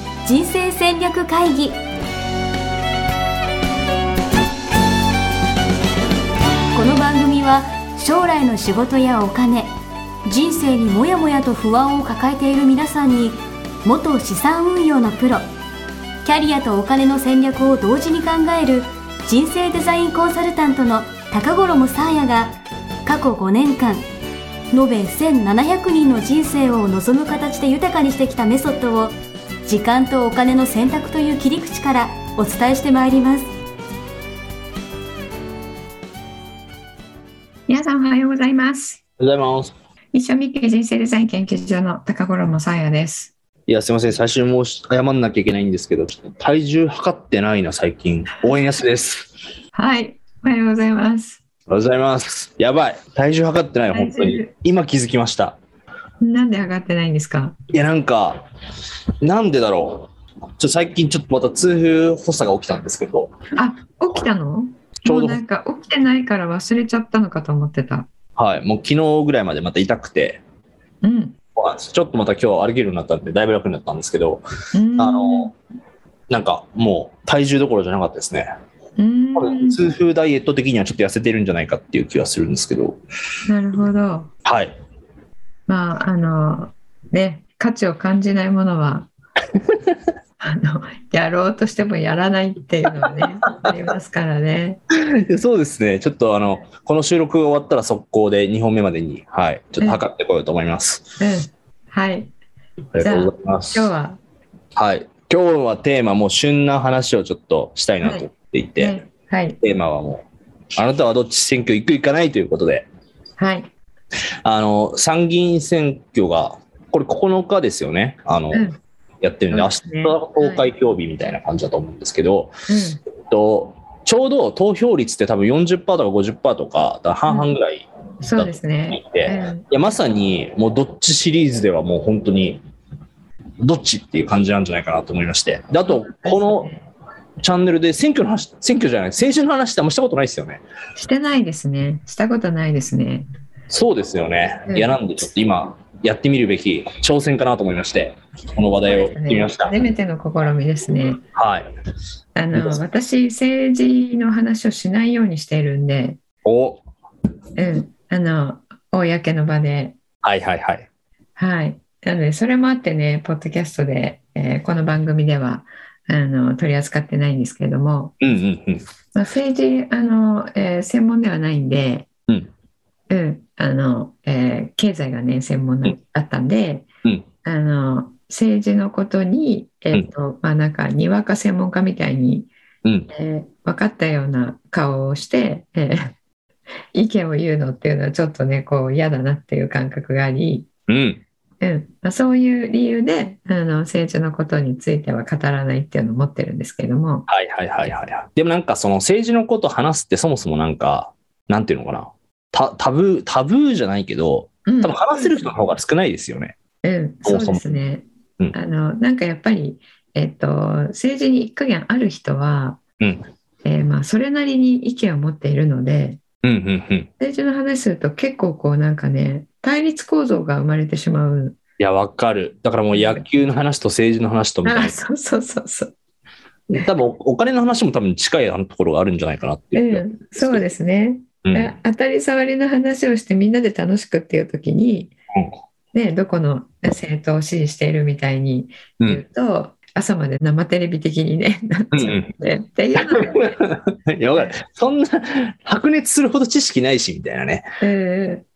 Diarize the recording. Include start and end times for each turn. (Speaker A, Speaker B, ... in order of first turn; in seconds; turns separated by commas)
Speaker A: 0.2-1.8, Speaker A: 6.7-9.7, Speaker A: 10.2-15.5, Speaker A: 16.2-24.0, Speaker A: 24.7-33.5, Speaker B: 37.7-39.0, Speaker C: 39.2-39.7, Speaker B: 40.1-43.3, Speaker C: 43.7-49.3, Speaker B: 49.7-51.4, Speaker C: 51.7-55.6, Speaker B: 53.9-54.5, Speaker B: 56.2-57.5, Speaker C: 57.7-58.4, Speaker C: 59.2-63.3, Speaker B: 63.5-68.1, Speaker C: 65.0-65.4, Speaker C: 68.3-70.4, Speaker B: 71.0-71.4, Speaker C: 71.5-74.4, Speaker B: 74.7-75.5, Speaker C: 75.0-75.5, Speaker C: 76.3-78.5, Speaker B: 79.0-79.8, Speaker C: 79.3-83.0, Speaker B: 83.5-84.3, Speaker C: 84.4-84.7, Speaker B: 85.7-89.1, Speaker B: 90.4-94.8, Speaker C: 94.9-101.2, Speaker B: 101.2-102.3, Speaker C: 102.9-103.9, Speaker B: 103.0-104.2, Speaker C: 104.8-109.0, Speaker B: 108.0-108.3, Speaker B: 108.8-109.6, Speaker C: 109.6-112.9, Speaker B: 113.4-113.7, Speaker C: 114.4-118.7, Speaker B: 118.5-118.8, Speaker C: 119.2-122.5, Speaker B: 119.5-120.7, Speaker B: 122.7-123.0, Speaker C: 123.2-132.6, Speaker B: 127.2-127.5, Speaker B: 128.2-129.6, Speaker C: 133.6-136.7, Speaker B: 135.8-136.9, Speaker C: 137.4-140.6, Speaker B: 140.9-143.2, Speaker C: 143.7-149.7, Speaker B: 144.7-144.9, Speaker B: 148.9-151.2, Speaker C: 151.3-151.7, Speaker B: 152.3-156.2, Speaker C: 152.5-152.8, Speaker C: 156.4-156.8, Speaker B: 157.6-159.9, Speaker C: 160.2-160.9, Speaker B: 161.3-168.1, Speaker C: 168.2-168.8, Speaker B: 169.1-172.1, Speaker B: 173.1-176.8, Speaker B: 177.4-182.5, Speaker C: 182.8-183.1, Speaker B: 183.1-186.1, Speaker B: 186.9-190.7, Speaker C: 190.9-191.2, Speaker B: 191.6-197.3, Speaker C: 197.3-206.5, Speaker B: 204.7-205.5, Speaker B: 206.8-212.8, Speaker C: 207.2-207.7, Speaker B: 213.6-216.2, Speaker C: 216.4-217.1, Speaker B: 217.2-221.6, Speaker C: 221.8-225.0, Speaker B: 222.9-223.2, Speaker B: 224.6-225.9, Speaker C: 226.7-230.7, Speaker B: 229.7-235.1, Speaker C: 231.4-231.7, Speaker B: 235.9-243.6, Speaker C: 241.9-242.3, Speaker C: 243.0-247.6, Speaker B: 247.8-248.4